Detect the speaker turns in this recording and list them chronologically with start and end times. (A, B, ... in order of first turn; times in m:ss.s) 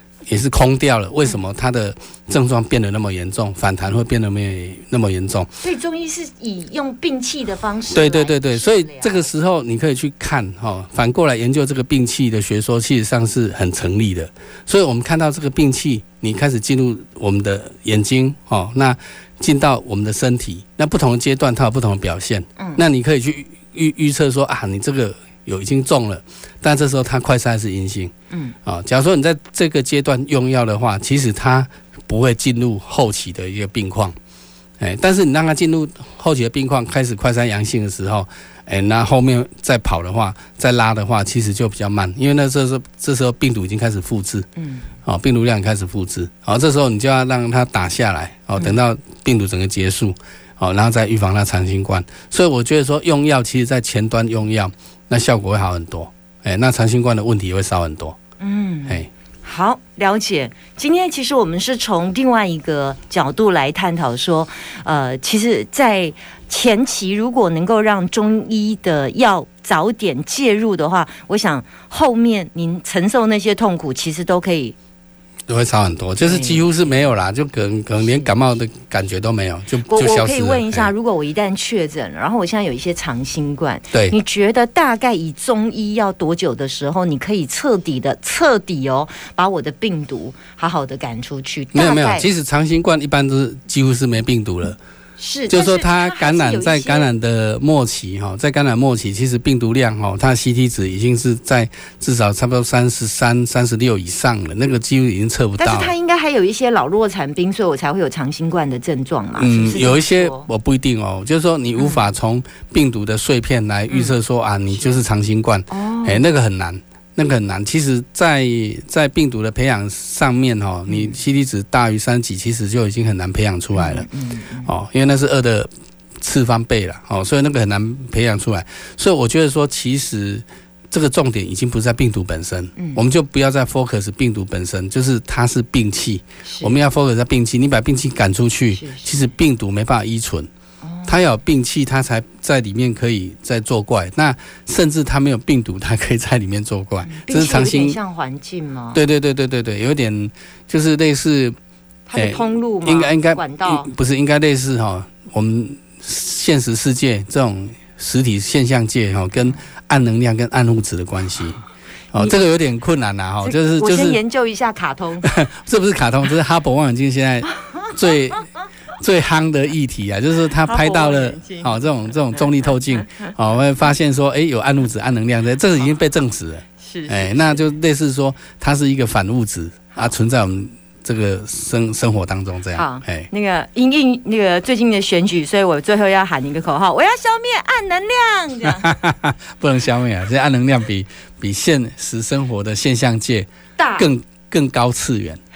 0:00.3-0:05.6 A
0:05.6-0:09.3 B
0:07.9-0:28.1 A
0:28.6-0:34.2 A
0:34.8-0:44.5 A
0:44.6-0:44.9 B
0:45.0-0:58.2 A
0:58.4-1:14.7 B
1:15.5-1:20.9 A
1:16.2-1:17.0 B
1:19.9-1:32.3 B
1:31.7-1:34.8 A
1:35.2-1:37.1 B
1:35.5-1:45.9 A
1:45.6-1:50.5 B
1:49.4-2:04.1 A
1:51.8-1:52.0 B
1:53.9-1:54.2 B
1:54.7-1:55.0 B
1:55.7-1:56.2 B
2:00.9-2:01.2 B
2:03.7-2:04.7 B
2:04.6-2:20.5 A
2:12.8-2:13.0 B
2:16.4-2:16.8 B
2:18.7-2:19.3 B
2:20.8-2:21.1 B
2:21.0-2:28.0 A
2:27.0-2:29.0 B
2:28.9-2:31.5 A
2:32.1-2:33.9 B
2:32.2-2:41.6 A
2:42.1-2:44.2 A
2:43.4-2:45.3 B
2:45.2-3:03.3 A
2:50.6-2:51.8 B
2:56.8-2:57.6 B
3:02.7-3:09.0 B
3:08.7-3:15.4 A
3:13.8-3:14.1 B